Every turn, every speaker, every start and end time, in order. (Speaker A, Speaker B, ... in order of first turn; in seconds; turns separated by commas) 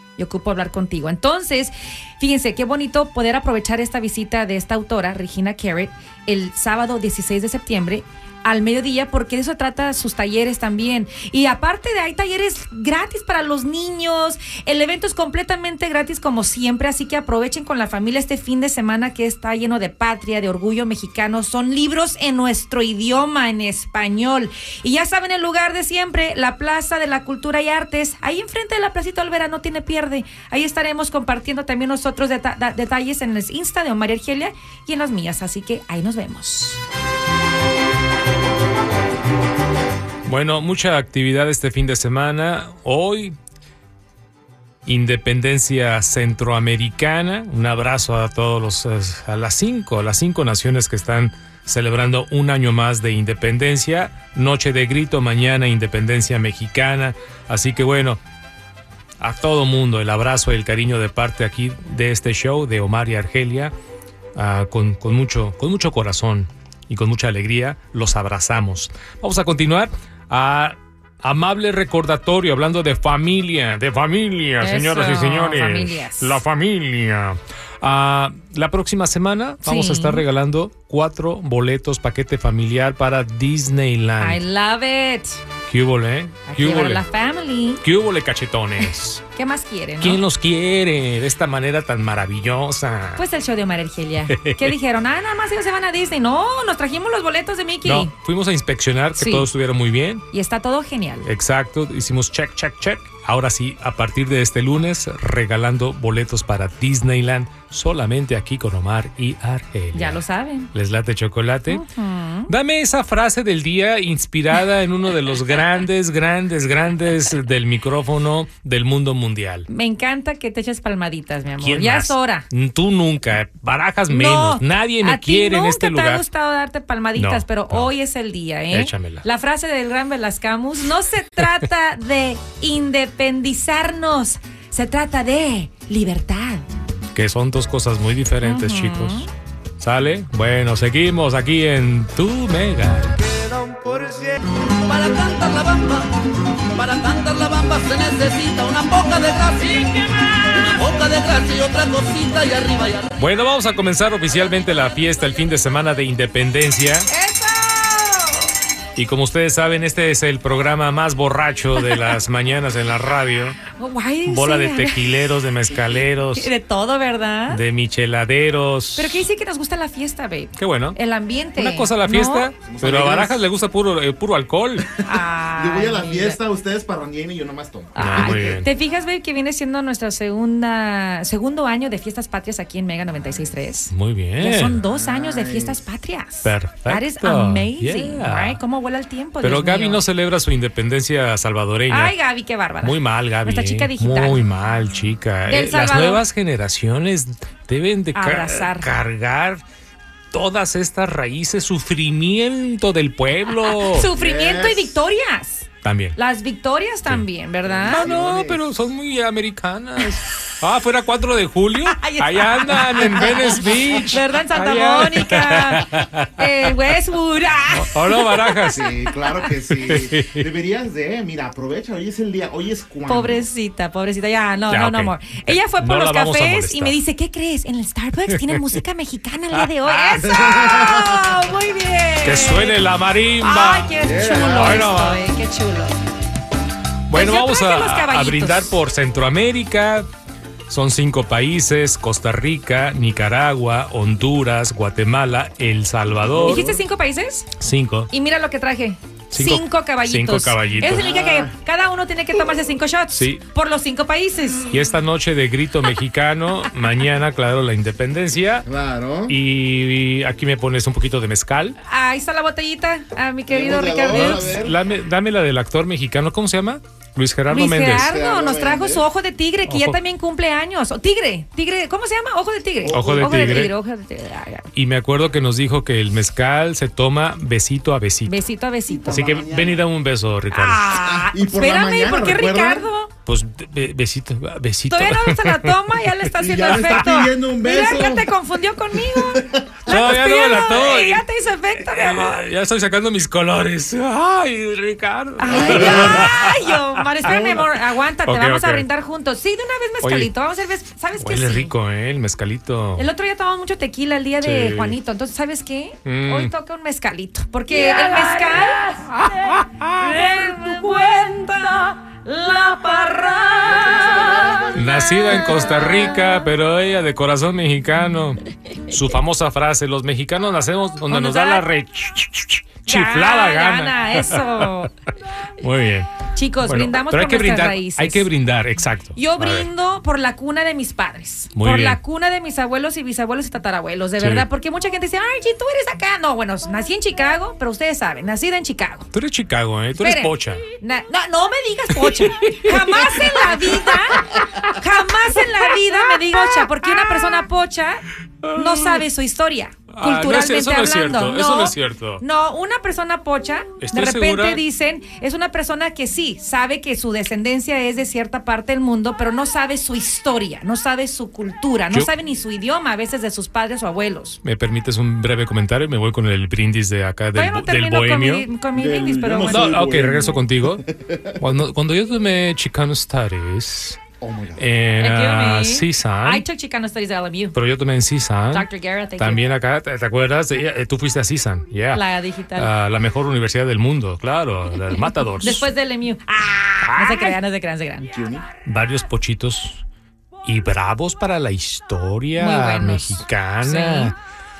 Speaker A: 0.2-36.8, Speaker B: 40.2-43.4, Speaker B: 44.9-58.2, Speaker B: 59.2-63.7, Speaker B: 64.3-84.4, Speaker A: 74.6-76.4, Speaker A: 79.6-80.2, Speaker A: 84.2-85.4, Speaker B: 85.7-87.0, Speaker A: 86.5-87.8, Speaker B: 87.8-89.2, Speaker A: 89.3-90.2, Speaker B: 90.0-93.2, Speaker A: 93.2-98.1, Speaker B: 94.3-94.7, Speaker B: 97.8-100.2, Speaker A: 99.2-99.5, Speaker A: 100.3-101.3, Speaker B: 101.2-110.2, Speaker A: 109.9-110.7, Speaker B: 110.7-111.8, Speaker A: 111.7-112.5, Speaker B: 112.5-119.7, Speaker A: 119.7-122.5, Speaker B: 121.6-126.2, Speaker A: 124.1-136.6, Speaker B: 127.2-127.9, Speaker B: 128.7-129.2, Speaker B: 137.1-139.3, Speaker A: 138.4-139.3, Speaker B: 139.8-143.2, Speaker C: 144.9-146.1, Speaker C: 146.7-153.1, Speaker B: 153.2-157.1, Speaker A: 157.1-158.5, Speaker B: 158.9-163.6, Speaker A: 163.8-165.0, Speaker B: 164.2-166.5, Speaker A: 166.3-167.6, Speaker B: 167.5-169.3, Speaker A: 169.0-172.5, Speaker B: 170.6-171.0, Speaker B: 171.6-174.9, Speaker D: 172.6-173.4, Speaker D: 174.8-178.6, Speaker A: 175.0-176.4, Speaker A: 177.9-190.0, Speaker B: 178.0-178.7, Speaker D: 183.2-183.5, Speaker B: 183.9-184.8, Speaker D: 184.8-185.8, Speaker B: 186.4-188.6, Speaker B: 189.4-192.1, Speaker A: 191.9-194.4, Speaker B: 192.8-199.6, Speaker A: 195.5-196.2, Speaker A: 198.1-198.9, Speaker B: 200.3-204.1, Speaker A: 203.7-208.1, Speaker D: 204.1-204.9, Speaker B: 205.8-206.2, Speaker D: 207.6-208.8, Speaker B: 207.9-216.7, Speaker A: 211.9-218.8, Speaker B: 217.7-218.8, Speaker D: 218.7-223.5, Speaker B: 219.7-220.5, Speaker A: 223.1-232.8, Speaker B: 224.7-226.9, Speaker B: 228.3-228.8, Speaker B: 229.5-230.6, Speaker D: 230.2-231.3, Speaker B: 232.2-235.2, Speaker A: 233.4-236.0, Speaker D: 234.0-234.8, Speaker B: 237.1-240.1, Speaker A: 237.1-238.7, Speaker B: 240.7-246.7, Speaker D: 246.3-246.8, Speaker A: 246.4-247.5, Speaker B: 247.6-248.1, Speaker A: 248.1-254.7, Speaker B: 249.3-251.1, Speaker D: 250.8-251.5, Speaker B: 253.1-253.4, Speaker B: 254.7-258.7, Speaker D: 258.6-259.4, Speaker B: 259.3-261.8, Speaker A: 261.8-264.6, Speaker D: 263.5-264.8, Speaker B: 264.1-268.1, Speaker A: 267.5-274.7, Speaker D: 267.8-269.1, Speaker B: 269.7-270.0, Speaker D: 272.8-273.7, Speaker B: 272.9-273.7, Speaker B: 274.7-278.4, Speaker A: 278.2-279.1, Speaker D: 278.9-279.9, Speaker B: 279.1-280.9, Speaker A: 280.5-283.1, Speaker D: 280.9-282.9, Speaker B: 283.2-285.9, Speaker A: 284.9-292.4, Speaker D: 286.3-288.3, Speaker B: 286.7-287.0, Speaker D: 288.9-289.7, Speaker B: 289.9-297.5, Speaker A: 295.4-301.7, Speaker D: 295.4-296.4, Speaker D: 297.2-297.6, Speaker B: 298.2-298.9, Speaker B: 300.0-300.3, Speaker B: 301.2-303.1, Speaker A: 302.9-309.0, Speaker B: 304.4-305.0, Speaker B: 306.0-306.5, Speaker B: 309.1-310.5, Speaker A: 309.9-315.9, Speaker D: 313.8-315.0, Speaker B: 314.7-324.8, Speaker A: 321.1-321.6, Speaker A: 322.9-324.9, Speaker B: 325.6-326.1, Speaker A: 326.3-328.3, Speaker B: 326.6-329.7, Speaker A: 329.1-339.1, Speaker B: 331.6-332.0, Speaker B: 334.2-334.4, Speaker B: 339.1-340.6, Speaker A: 340.0-364.4, Speaker B: 342.0-344.7, Speaker B: 345.4-347.4, Speaker B: 348.4-349.0, Speaker B: 349.9-352.2, Speaker B: 353.8-354.6, Speaker B: 364.4-368.5, Speaker A: 367.3-369.8, Speaker D: 368.7-371.4, Speaker B: 369.4-370.8, Speaker B: 371.4-374.0, Speaker D: 374.2-374.6, Speaker B: 374.6-376.4, Speaker A: 375.0-377.6, Speaker B: 377.5-382.0, Speaker A: 378.5-379.4, Speaker A: 381.9-382.7, Speaker B: 382.6-385.7, Speaker A: 385.4-388.1, Speaker B: 386.9-387.4, Speaker D: 388.1-388.4, Speaker B: 388.6-389.8, Speaker B: 390.4-394.1, Speaker A: 392.4-394.1